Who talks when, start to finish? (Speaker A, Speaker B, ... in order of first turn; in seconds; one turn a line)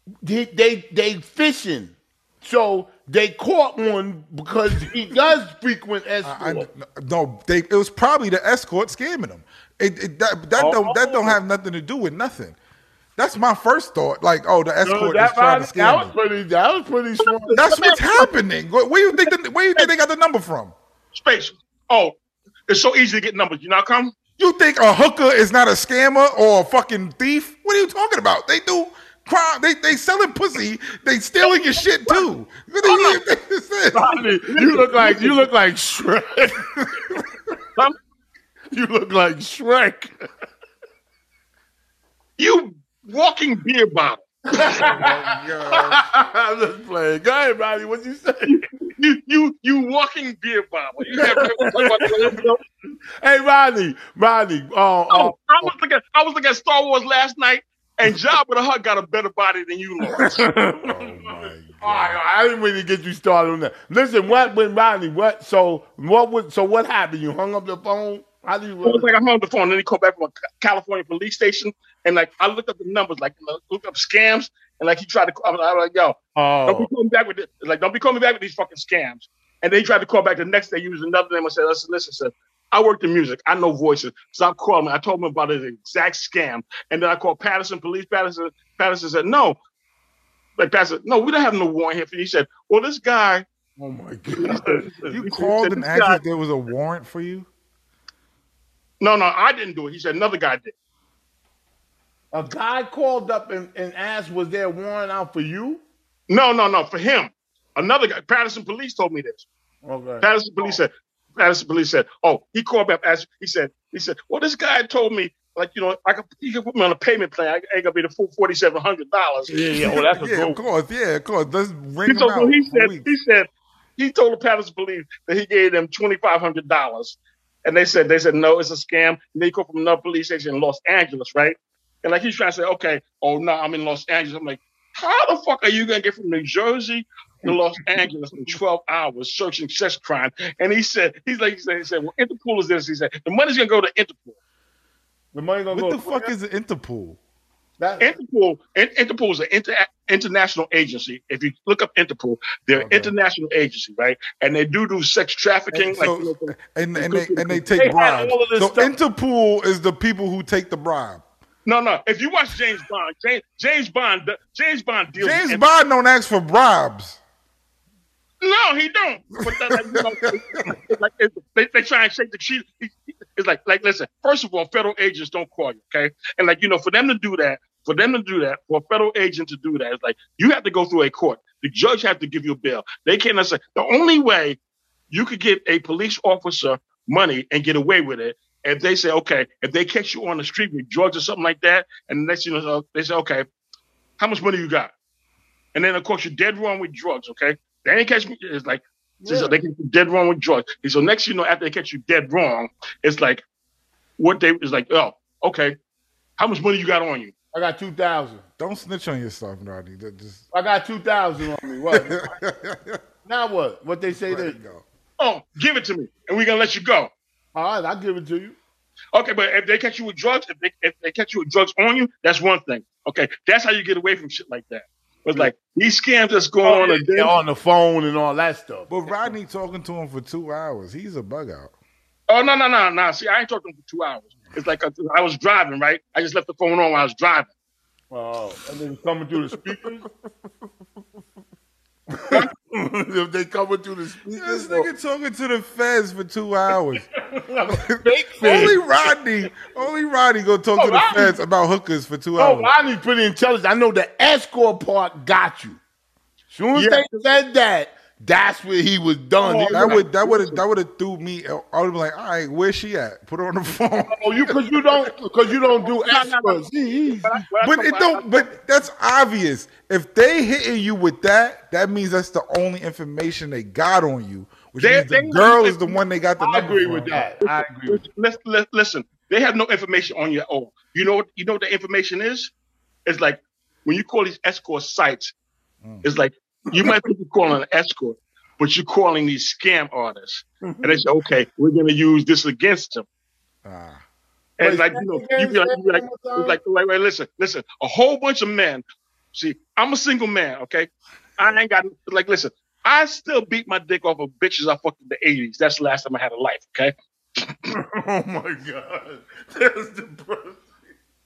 Speaker A: 0.2-6.7
Speaker B: 6.2-12.6
Speaker C: 10.6-11.3
Speaker B: 13.2-16.1
Speaker A: 14.8-17.6
Speaker C: 17.2-18.3
Speaker B: 17.6-20.7
Speaker C: 19.1-19.9
Speaker C: 21.1-22.1
Speaker C: 22.7-24.1
Speaker B: 24.4-34.1
Speaker C: 31.4-32.2
Speaker C: 32.8-33.2
Speaker A: 33.9-36.7
Speaker C: 34.5-35.5
Speaker A: 38.7-40.1
Speaker C: 42.4-44.3
Speaker A: 44.5-48.6
Speaker B: 44.8-46.0
Speaker C: 48.5-52.6
Speaker A: 51.1-52.5
Speaker A: 53.2-55.7
Speaker C: 55.1-60.5
Speaker A: 60.1-69.1
Speaker B: 60.8-62.2
Speaker C: 68.8-89.6
Speaker A: 76.3-76.9
Speaker C: 90.6-93.4
Speaker A: 93.8-95.2
Speaker C: 94.4-96.2
Speaker B: 95.1-97.5
Speaker C: 99.0-100.7
Speaker A: 102.3-105.8
Speaker C: 106.3-109.5
Speaker A: 109.8-110.7
Speaker C: 110.2-120.0
Speaker A: 119.5-120.6
Speaker B: 120.1-123.1
Speaker C: 122.0-144.3
Speaker A: 145.3-146.3
Speaker B: 145.7-147.2
Speaker A: 147.8-148.2
Speaker C: 148.0-157.6
Speaker B: 152.7-153.1
Speaker B: 155.7-161.2
Speaker A: 157.7-158.9
Speaker C: 161.6-165.6
Speaker B: 165.2-167.2
Speaker C: 168.4-184.6
Speaker B: 169.6-170.6
Speaker C: 185.1-193.5
Speaker C: 194.2-194.9
Speaker C: 195.7-203.4
Speaker A: 199.2-199.6
Speaker C: 204.2-205.8
Speaker C: 206.4-207.3
Speaker A: 207.5-208.4
Speaker B: 208.6-210.4
Speaker A: 210.5-212.3
Speaker B: 211.9-213.0
Speaker A: 213.2-214.6
Speaker B: 214.1-214.8
Speaker C: 215.2-217.1
Speaker A: 217.5-218.6
Speaker C: 219.1-227.4
Speaker A: 226.6-229.3
Speaker B: 228.9-231.7
Speaker C: 232.3-237.5
Speaker A: 238.1-240.1
Speaker A: 242.1-244.9
Speaker B: 244.3-247.1
Speaker A: 247.2-248.8
Speaker B: 247.8-252.7
Speaker A: 250.8-251.4
Speaker A: 252.4-255.8
Speaker A: 256.5-260.0
Speaker C: 256.7-257.1
Speaker C: 259.4-260.6
Speaker B: 259.7-265.1
Speaker A: 264.1-267.4
Speaker C: 265.9-268.3
Speaker B: 267.6-277.3
Speaker C: 274.8-275.9
Speaker A: 276.4-278.0
Speaker C: 277.4-282.5
Speaker C: 283.1-285.3
Speaker C: 286.0-293.1
Speaker A: 286.7-287.0
Speaker A: 290.6-291.0
Speaker B: 293.6-294.0
Speaker C: 294.6-298.8
Speaker A: 294.6-296.6
Speaker C: 299.3-307.6
Speaker A: 307.7-310.8